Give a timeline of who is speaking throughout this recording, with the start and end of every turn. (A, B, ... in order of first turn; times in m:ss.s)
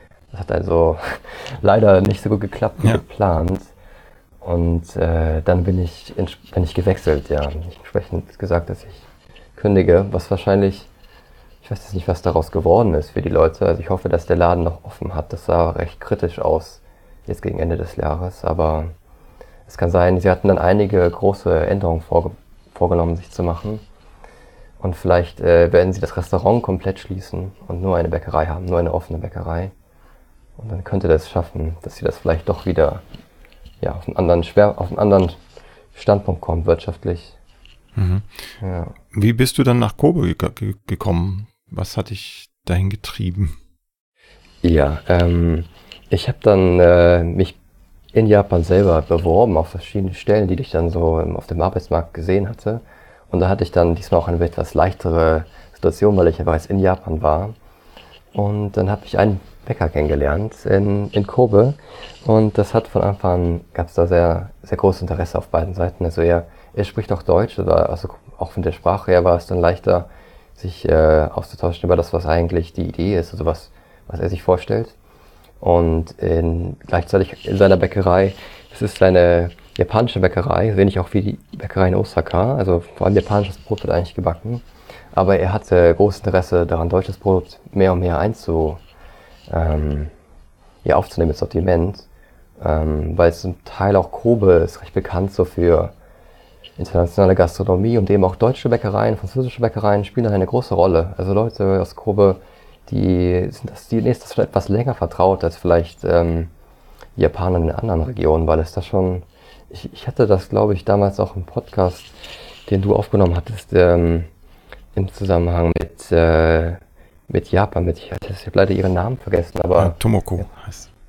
0:00.3-0:03.7 A
0:04.4-0:10.9 A
0:11.6-0:18.9 A
0:19.7-0:23.8 A
0:24.8-0:29.7 A
0:30.6-0:33.0 A
0:33.8-0:35.4 A
0:35.9-0:37.4 A
0:37.9-0:38.5 B
0:38.6-0:38.9 A
0:39.1-0:43.6 B
0:44.6-0:47.6 A
0:48.1-0:57.5 A
0:58.3-1:15.0 A
1:15.6-1:28.8 A
1:29.5-1:30.1 A
1:30.8-1:32.1 A
1:32.6-1:35.9 A
1:36.8-1:46.5 A
1:47.2-1:52.1 A
1:52.7-1:54.3 A
1:54.9-2:00.0 A
1:59.8-2:00.9 B